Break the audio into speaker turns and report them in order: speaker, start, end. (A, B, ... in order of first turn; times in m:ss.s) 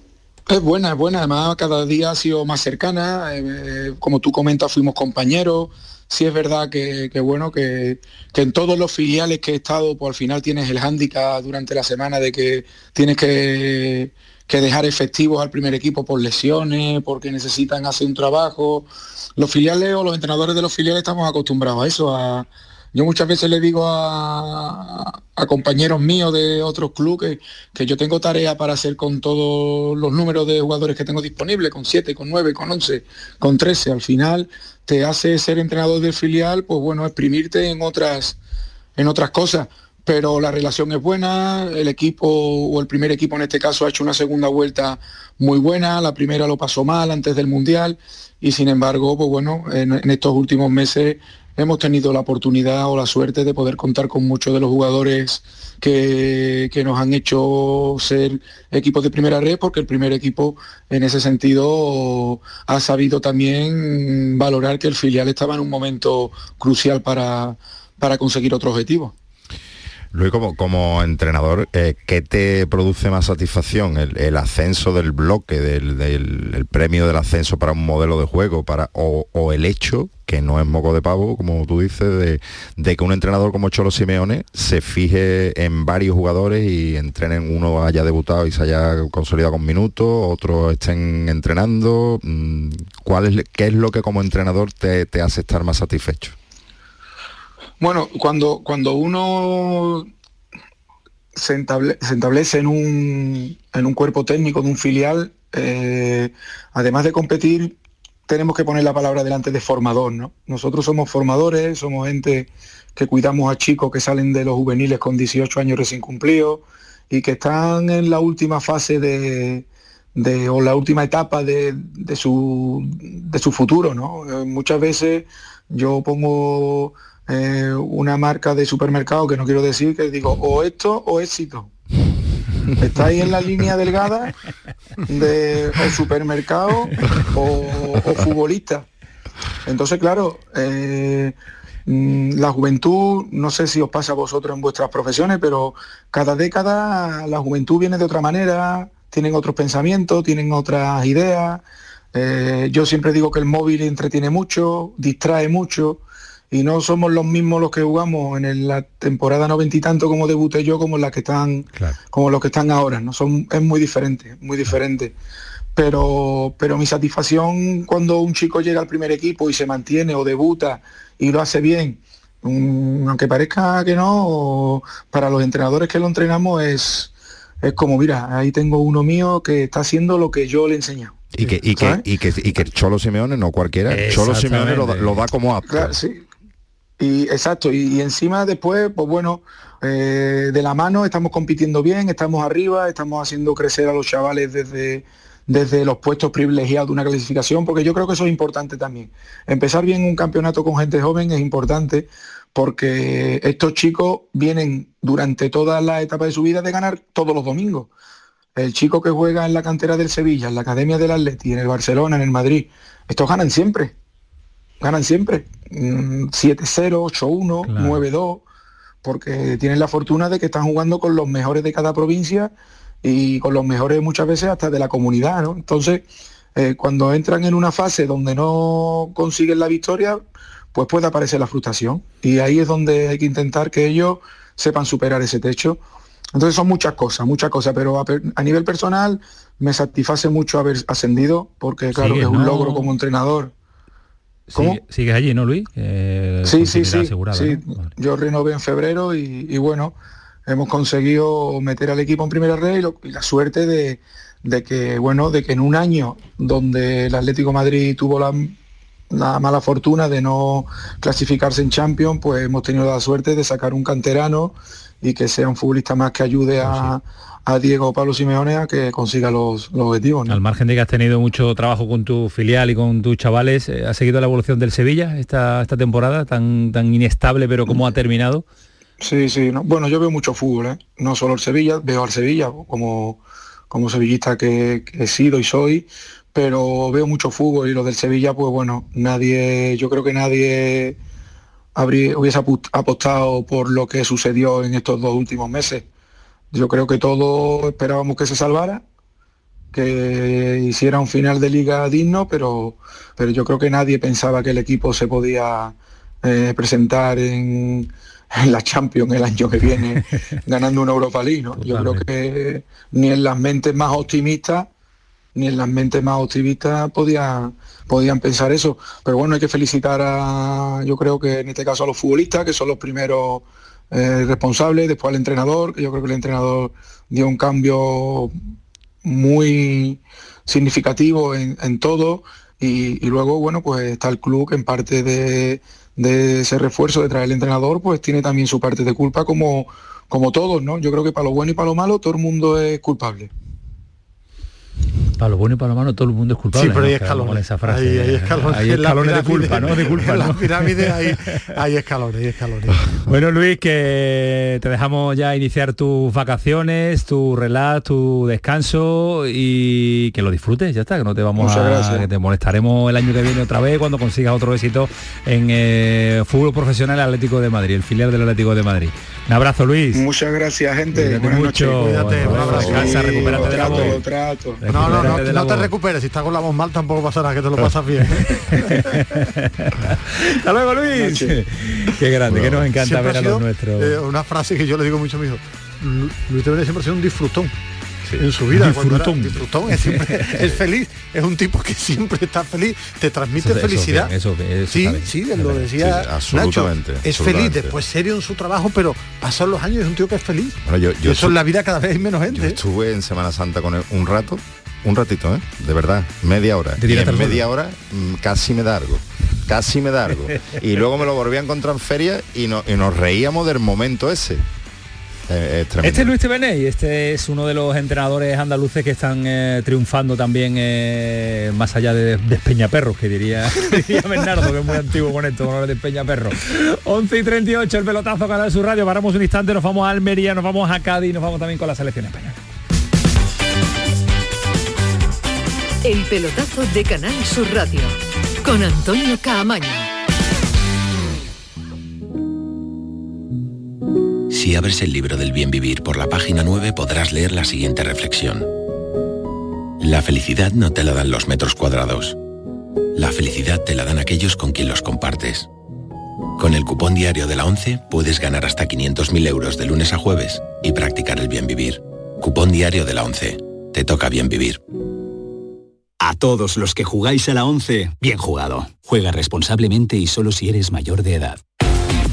0:00.5-0:38.4 A
0:39.0-1:09.1 A
1:10.1-1:36.3 B
1:37.8-1:40.1 A
1:41.4-1:47.8 A
1:48.3-2:11.7 A
2:12.8-2:14.3 A
2:15.1-2:18.9 A
2:19.6-2:21.3 A
2:21.8-2:31.6 A
2:32.1-2:45.1 A
2:45.8-3:01.2 A
3:01.3-3:06.0 B
3:01.7-3:02.0 A
3:03.9-3:05.2 C
3:05.7-3:06.2 A
3:07.0-3:27.9 A
3:28.6-3:33.9 A
3:34.8-3:38.4 A
3:37.7-3:38.0 C
3:39.0-3:42.5 A
3:43.0-3:50.2 A
3:50.7-3:55.8 A
3:56.3-4:03.5 A
4:01.9-4:02.9 C
4:04.5-4:07.9 C
4:04.5-4:04.8 A
4:06.4-4:10.0 A
4:10.5-4:18.5 A
4:19.1-4:30.4 A
4:26.6-4:26.9 C
4:30.3-4:38.4 C
4:39.0-4:51.0 A
4:51.8-4:55.8 A
4:56.5-4:58.8 A
4:59.7-5:14.7 A
5:11.6-5:12.0 C
5:15.3-5:28.3 A
5:29.0-5:43.3 A
5:45.2-5:51.2 C
5:46.5-5:52.8 D
5:53.1-6:10.0 C
6:01.4-6:02.1 A
6:09.9-6:15.2 A
6:10.9-6:14.0 C
6:11.8-6:13.7 D
6:12.4-6:14.0 B
6:14.6-6:15.7 C
6:14.7-6:19.0 D
6:18.3-6:24.0 C
6:20.9-6:21.4 A
6:22.7-6:27.5 D
6:28.1-6:30.5 C
6:28.2-6:34.1 D
6:33.4-6:35.7 C
6:34.7-6:42.6 D
6:35.8-6:37.7 B
6:40.6-6:41.3 B
6:42.3-6:54.4 B
6:46.8-6:47.5 C
6:55.3-6:56.1 B
6:55.8-7:12.4 C
7:15.8-7:19.9 E
7:24.3-7:28.5 F
7:29.8-7:32.2 F
7:33.0-7:35.5 F
7:36.4-7:44.6 F
7:46.0-7:51.4 G